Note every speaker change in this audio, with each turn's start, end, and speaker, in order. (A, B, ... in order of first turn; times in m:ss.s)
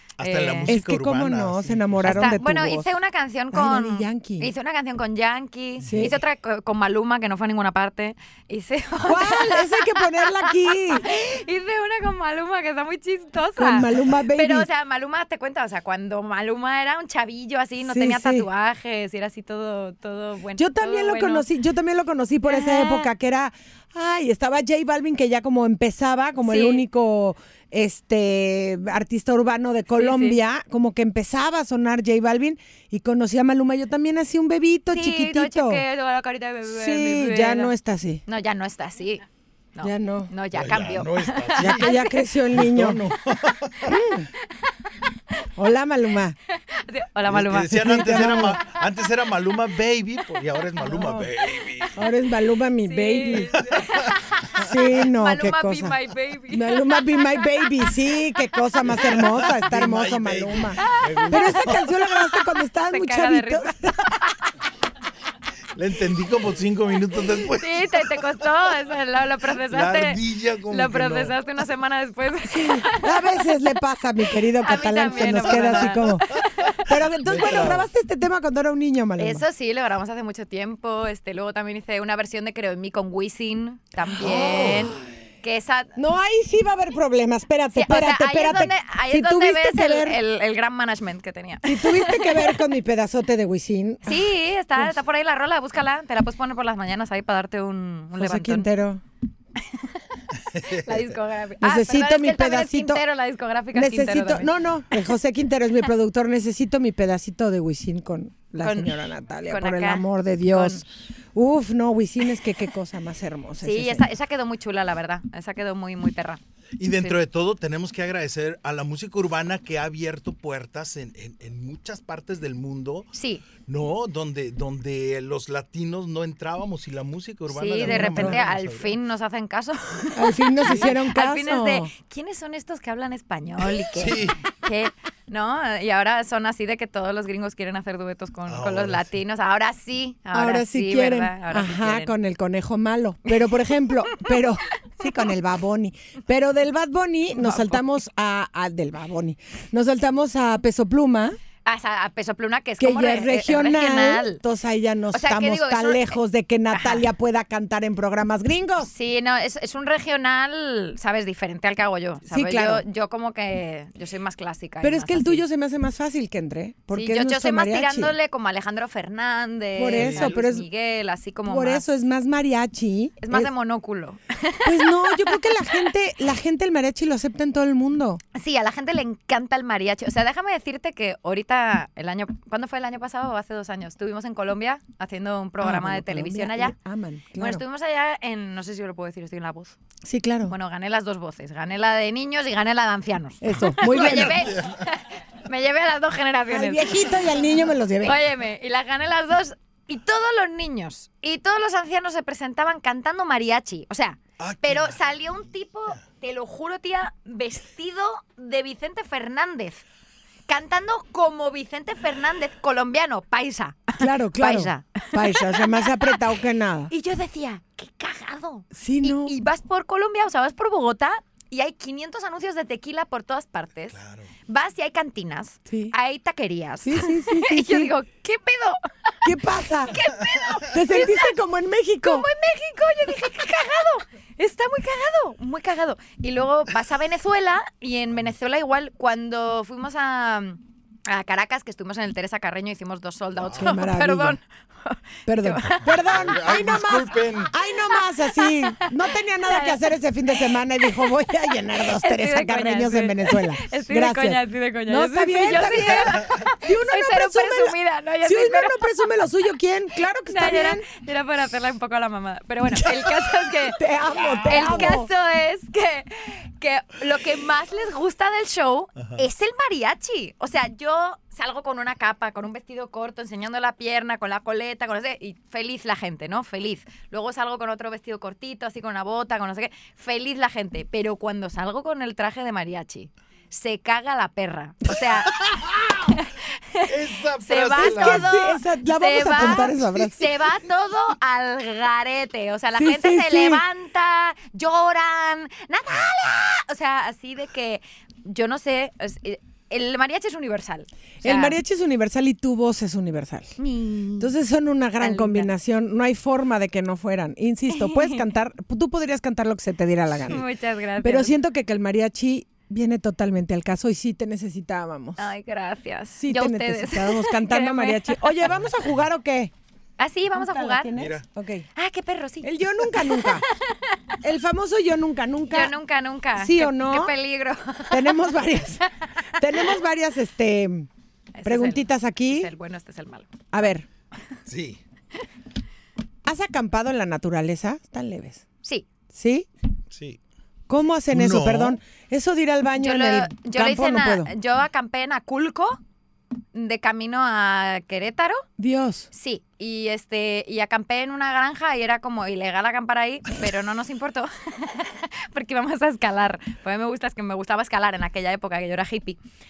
0:00.2-0:02.4 A
0:00.2-0:00.7 B
0:00.7-0:02.9 C
0:02.0-0:21.4 B
0:03.5-0:04.5 C
0:05.8-0:06.1 A
0:05.8-0:06.2 C
0:09.0-0:11.0 C
0:13.6-0:14.7 C
0:17.8-0:18.5 C
0:20.6-0:35.8 C
0:22.4-0:23.1 B
0:26.4-0:26.8 B
0:29.9-0:30.4 B
0:34.9-0:37.7 B
0:36.7-0:38.2 C
0:38.2-0:39.2 B
0:39.7-0:42.3 B
0:39.8-0:40.3 C
0:40.5-0:41.9 A
0:41.6-0:43.0 C
0:42.5-0:43.9 A
0:43.8-0:44.3 C
0:44.4-0:44.9 B
0:45.6-0:46.4 C
0:46.5-0:48.4 B
0:47.3-0:52.0 A
0:47.6-0:48.6 C
0:50.8-0:51.3 C
0:51.9-0:53.6 C
0:52.8-0:57.9 B
0:53.5-0:54.7 A
0:54.6-0:56.0 C
0:56.5-1:04.1 C
0:58.8-1:01.9 A
1:00.8-1:04.3 B
1:05.7-1:08.4 A
1:07.5-1:13.6 B
1:09.6-1:11.4 A
1:12.5-1:16.3 C
1:14.5-1:16.9 B
1:15.1-1:16.7 A
1:16.8-1:19.4 C
1:17.2-1:17.9 A
1:19.2-1:26.0 B
1:24.2-1:24.8 C
1:24.3-1:24.9 A
1:26.0-1:30.2 C
1:27.7-1:32.6 B
1:31.6-1:34.9 C
1:34.0-1:38.7 B
1:38.2-1:39.0 C
1:39.6-1:40.0 B
1:40.5-1:41.1 A
1:40.6-1:44.5 B
1:41.6-1:43.0 C
1:43.7-1:54.0 C
1:48.6-1:50.8 B
1:53.6-1:56.4 B
1:56.8-2:09.0 A
2:03.1-2:03.4 B
2:07.5-2:22.1 B
2:07.8-2:08.4 C
2:10.1-2:11.9 C
2:13.9-2:14.4 A
2:18.5-2:19.1 A
2:20.3-2:31.4 C
2:23.3-2:24.4 B
2:27.4-2:27.7 B
2:31.6-2:34.4 B
2:32.8-2:38.9 C
2:35.1-2:36.2 B
2:36.7-2:37.0 B
2:38.8-2:45.4 B
2:42.3-2:42.8 C
2:44.8-2:48.1 C
2:46.9-2:51.8 B
2:49.8-2:50.7 C
2:49.9-2:50.3 A
2:51.4-2:53.5 C
2:53.2-2:55.9 B
2:54.6-2:58.2 C
2:58.3-3:06.7 B
3:05.6-3:07.6 C
3:07.4-3:09.8 B
3:10.0-3:10.5 C
3:10.5-3:17.2 B
3:13.4-3:14.4 C
3:13.8-3:14.8 A
3:16.5-3:18.2 C
3:18.0-3:29.8 B
3:24.4-3:25.4 A
3:30.5-3:36.1 B
3:34.0-3:36.9 C
3:36.9-3:49.2 B
3:38.7-3:39.3 C
3:43.9-3:44.3 A
3:45.7-3:45.9 C
3:46.8-3:47.9 C
3:49.2-3:50.0 C
3:49.9-3:51.3 B
3:50.7-3:52.3 C
3:52.0-4:06.0 B
4:03.4-4:03.7 A
4:03.6-4:04.4 C
4:05.2-4:20.8 C
4:05.8-4:07.5 A
4:08.1-4:08.9 B
4:09.4-4:11.1 B
4:11.8-4:18.9 B
4:20.3-4:23.8 B
4:23.6-4:25.1 C
4:24.2-4:24.9 A
4:24.4-4:45.4 B
4:29.0-4:29.2 A
4:45.3-4:46.2 A
4:46.1-5:01.6 B
4:46.8-4:48.4 A
4:47.8-4:50.3 C
4:52.7-4:53.6 C
5:01.2-5:03.5 C
5:03.6-5:04.3 B
5:04.2-5:10.4 C
5:05.0-5:05.5 B
5:07.7-5:08.2 B
5:10.2-5:11.3 B
5:11.0-5:15.3 C
5:15.2-5:18.4 B
5:16.2-5:19.5 C
5:20.0-5:20.9 B
5:20.3-5:21.6 C
5:20.9-5:21.2 A
5:21.7-5:24.0 B
5:22.4-5:23.4 C
5:24.2-5:25.7 C
5:25.5-5:29.8 B
5:26.4-5:27.1 C
5:27.9-5:28.8 C
5:29.3-5:30.9 C
5:31.3-5:33.3 B
5:31.4-5:32.5 C
5:33.5-5:33.8 C
5:34.5-5:34.8 A
5:36.2-5:38.4 C
5:39.1-5:39.5 C
5:39.9-5:40.2 A
5:40.7-5:44.3 C
5:41.1-5:41.8 A
5:42.8-5:45.8 B
5:46.5-5:48.4 B
5:48.6-5:49.1 C
5:49.1-5:59.2 B